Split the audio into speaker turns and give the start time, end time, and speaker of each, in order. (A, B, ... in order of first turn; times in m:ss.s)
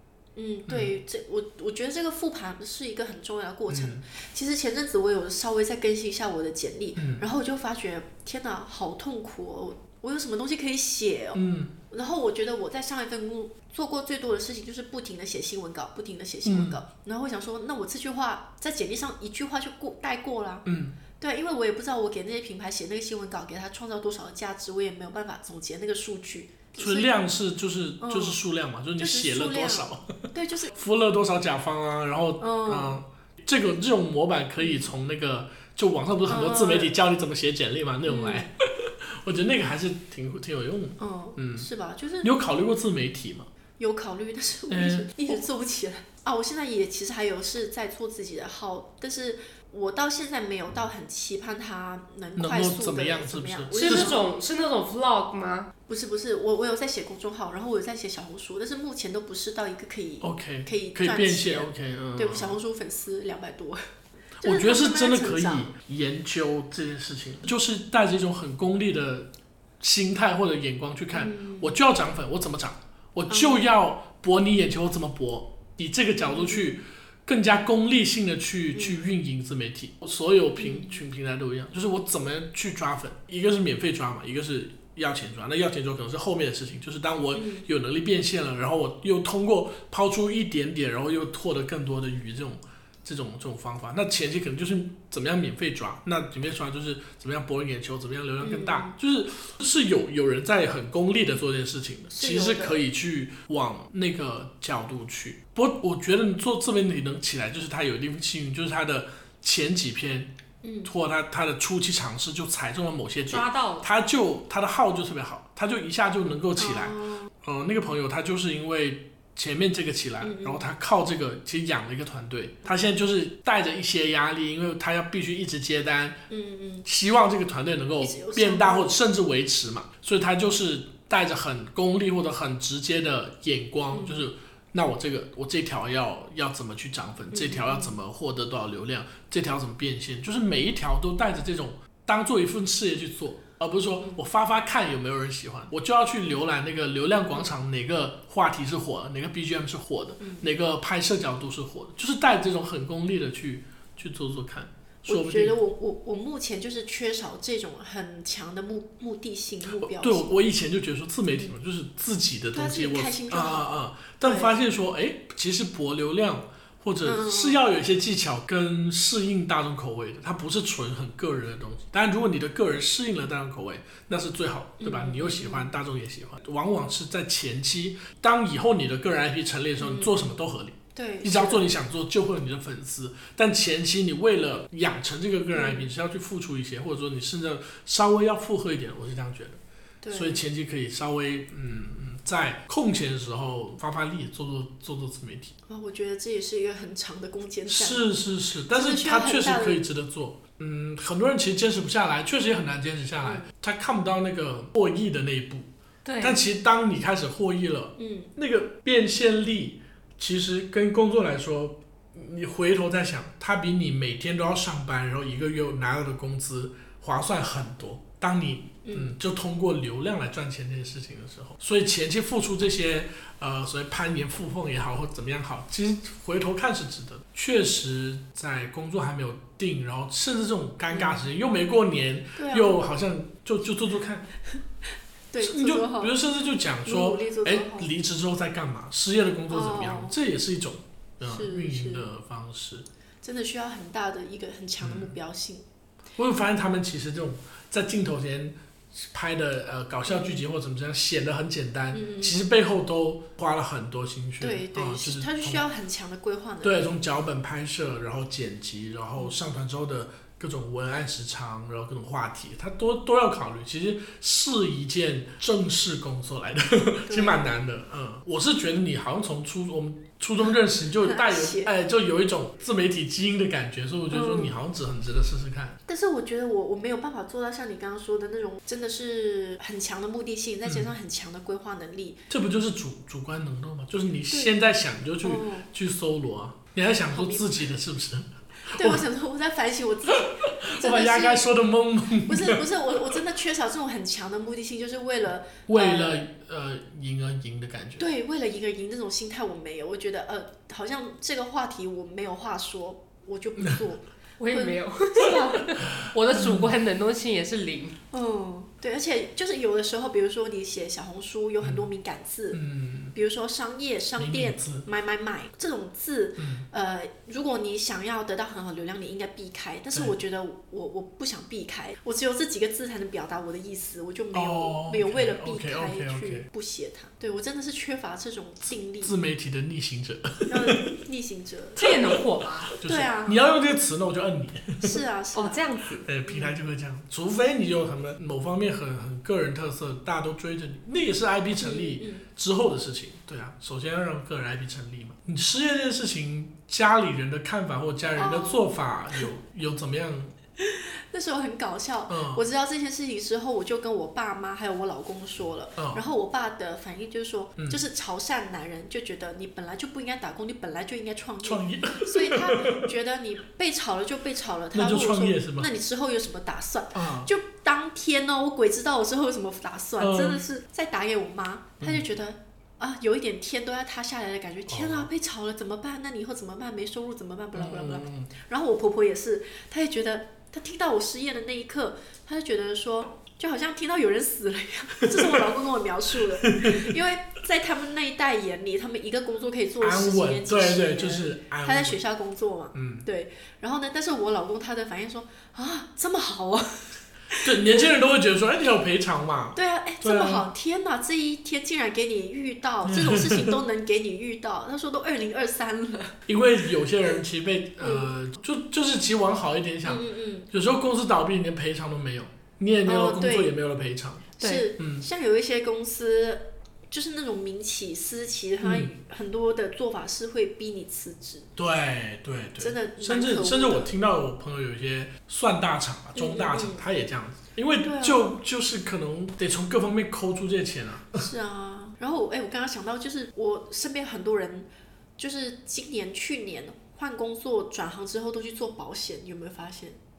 0:00.4-0:20.7 A
0:00.7-0:00.9 B
0:03.7-0:04.0 B
0:07.0-0:07.2 B
0:11.4-0:11.8 B
0:16.4-0:16.8 B
0:20.6-0:21.0 B
0:21.2-0:27.2 A
0:26.8-0:41.7 B
0:28.0-0:28.4 A
0:29.0-0:30.8 A
0:32.4-0:33.0 A
0:34.6-0:34.9 A
0:36.3-0:36.9 A
0:38.1-0:38.5 A
0:41.0-0:42.3 A
0:42.2-0:43.5 B
0:43.8-0:54.3 A
0:44.7-0:45.4 B
0:52.4-0:54.2 B
0:53.8-0:55.7 C
0:55.9-1:03.8 A
1:00.2-1:02.6 B
1:04.4-1:50.3 B
1:04.4-1:05.7 A
1:11.1-1:11.8 A
1:13.3-1:13.7 A
1:16.2-1:16.8 A
1:18.7-1:19.0 A
1:20.6-1:21.0 A
1:27.3-1:27.7 A
1:38.4-1:39.0 A
1:42.1-1:42.8 A
1:50.6-1:50.9 A
1:50.9-2:06.2 B
1:53.3-1:53.9 C
1:56.6-1:57.3 A
2:00.2-2:00.7 A
2:06.3-2:06.9 A
2:06.8-2:35.6 B
2:08.0-2:08.9 A
2:13.9-2:14.2 A
2:17.3-2:18.0 A
2:30.2-2:30.5 A
2:35.1-2:40.3 A
2:39.8-3:09.6 B
2:42.5-2:43.7 A
2:44.2-2:44.5 A
2:47.0-2:47.6 A
2:54.8-2:55.7 A
2:59.8-3:00.1 A
3:01.0-3:01.7 A
3:05.5-3:05.9 A
3:10.0-3:10.5 A
3:10.1-3:15.5 B
3:15.7-3:18.0 A
3:17.7-3:25.7 B
3:18.7-3:19.8 A
3:23.2-3:23.5 A
3:26.0-3:26.4 C
3:26.2-3:54.3 B
3:28.0-3:28.3 A
3:38.8-3:39.1 A
3:50.9-3:51.3 A
3:52.4-3:52.8 A
3:55.3-3:56.2 A
3:55.4-4:02.9 B
3:56.9-3:57.9 A
3:59.5-4:00.2 A
4:01.2-4:02.1 A
4:03.2-4:05.7 A
4:04.8-4:05.1 B
4:06.2-4:15.6 B
4:10.1-4:10.4 A
4:11.9-4:12.5 A
4:14.4-4:16.9 A
4:16.6-4:35.8 B
4:27.1-4:27.5 A
4:30.4-4:31.7 A
4:34.1-4:34.6 A
4:35.9-4:42.2 A
4:42.3-4:49.0 B
4:45.2-4:45.7 A
4:47.1-4:47.7 A
4:48.8-4:51.5 A
4:50.6-4:52.6 B
4:52.2-4:56.3 A
4:55.7-4:58.1 B
4:58.0-5:05.6 A
5:04.4-5:08.0 C
5:06.0-5:06.7 B
5:08.1-5:12.6 A
5:12.5-5:13.2 B
5:13.1-5:29.2 A
5:14.2-5:14.8 B
5:16.4-5:16.7 B
5:24.3-5:26.5 B
5:29.0-5:30.8 B
5:30.5-5:32.2 A
5:31.8-5:32.7 C
5:31.8-5:35.0 B
5:32.8-5:33.4 A
5:34.8-5:35.6 A
5:35.3-5:36.0 C
5:36.0-5:50.3 B
5:36.3-5:36.5 A
5:41.6-5:42.3 A
5:48.2-5:48.6 A
5:50.6-6:37.9 A
5:52.1-5:52.4 B
5:55.8-5:56.0 B
6:01.4-6:02.9 B
6:04.7-6:05.7 B
6:07.0-6:07.3 B
6:10.0-6:10.4 B
6:11.8-6:12.1 B
6:14.7-6:15.1 B
6:17.6-6:18.3 B
6:25.0-6:25.5 B
6:26.2-6:26.9 B
6:29.8-6:32.0 B
6:32.7-6:33.1 B
6:37.4-6:40.5 B
6:39.6-6:46.2 A
6:42.8-6:43.6 B
6:46.3-6:55.1 B
6:47.8-6:48.1 A
6:49.8-6:50.5 A
6:52.8-6:53.6 A
6:54.4-7:01.5 A
6:54.4-6:54.7 C
6:58.6-6:58.9 B
7:01.6-7:11.3 B
7:02.6-7:03.9 A
7:06.2-7:06.8 A
7:07.8-7:08.3 A
7:11.2-7:20.0 A